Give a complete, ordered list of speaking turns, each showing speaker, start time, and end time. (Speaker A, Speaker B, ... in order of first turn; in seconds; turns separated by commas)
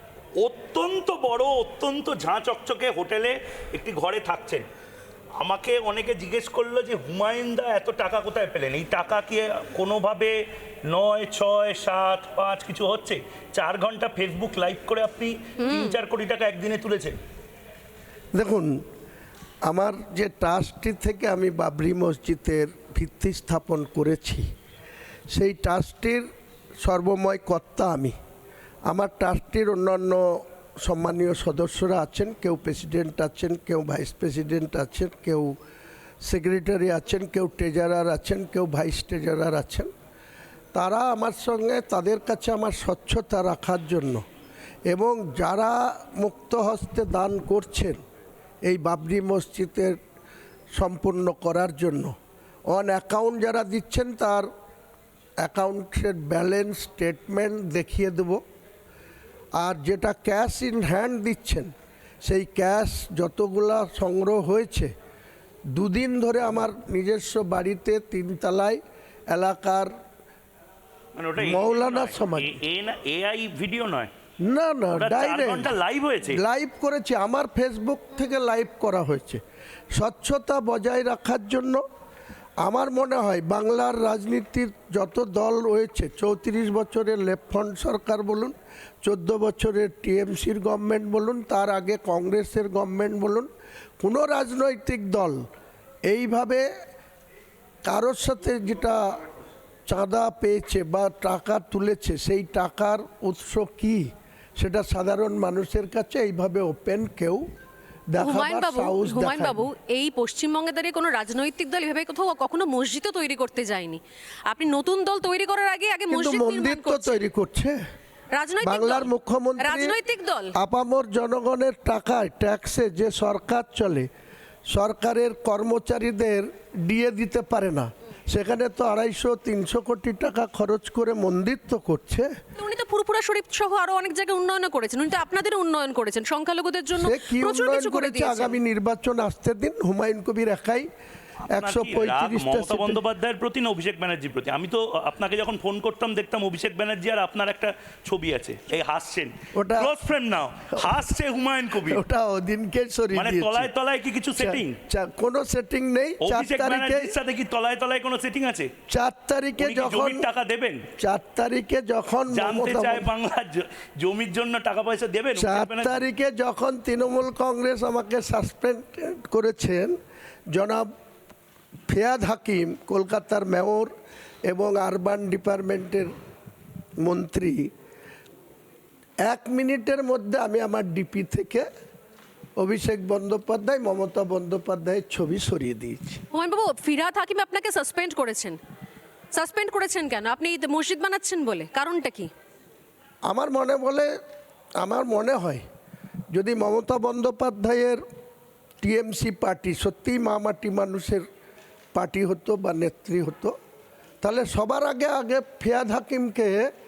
Speaker A: 0.4-4.6, Speaker A: 5.4-17.2, Speaker B: 15.6-15.9, Speaker C: 18.3-18.8, Speaker C: 19.6-24.4, Speaker C: 25.3-26.2, Speaker C: 26.8-28.1, Speaker C: 28.9-35.5, Speaker C: 36.2-39.9, Speaker C: 40.7-44.2, Speaker C: 44.9-48.0, Speaker C: 48.6-50.0, Speaker C: 50.7-52.1, Speaker C: 52.7-54.5, Speaker C: 55.4-58.4, Speaker C: 59.6-61.7, Speaker C: 62.2-64.9, Speaker C: 65.7-69.9, Speaker A: 71.1-74.1, Speaker C: 71.4-72.5, Speaker C: 74.4-75.7, Speaker A: 75.0-76.4, Speaker C: 76.3-79.4, Speaker C: 79.9-81.8, Speaker C: 82.6-93.5, Speaker C: 94.0-95.4, Speaker C: 96.1-96.7, Speaker C: 97.8-99.0, Speaker C: 99.9-104.0, Speaker C: 104.6-107.4, Speaker C: 108.1-109.7, Speaker B: 108.2-117.2, Speaker C: 116.1-117.8, Speaker B: 118.3-120.5, Speaker C: 118.6-120.0, Speaker C: 120.5-124.1, Speaker C: 124.7-132.3, Speaker B: 132.6-138.6, Speaker C: 136.9-140.9, Speaker C: 141.5-143.0, Speaker A: 141.5-152.0, Speaker C: 149.5-150.0, Speaker C: 151.9-153.7, Speaker A: 153.1-154.8, Speaker C: 154.4-157.1, Speaker A: 156.2-158.7, Speaker C: 158.9-160.2, Speaker A: 159.6-160.8, Speaker C: 161.0-163.1, Speaker A: 162.3-166.0, Speaker C: 165.3-169.9, Speaker C: 170.5-170.9, Speaker C: 171.9-173.9, Speaker C: 174.5-176.1, Speaker C: 177.0-177.7, Speaker C: 179.2-181.7, Speaker C: 182.6-186.2, Speaker B: 186.3-188.6, Speaker B: 189.3-192.3, Speaker C: 193.3-194.1, Speaker C: 194.8-195.6, Speaker C: 196.3-198.0, Speaker C: 198.8-201.2, Speaker C: 201.9-203.5, Speaker C: 204.2-206.7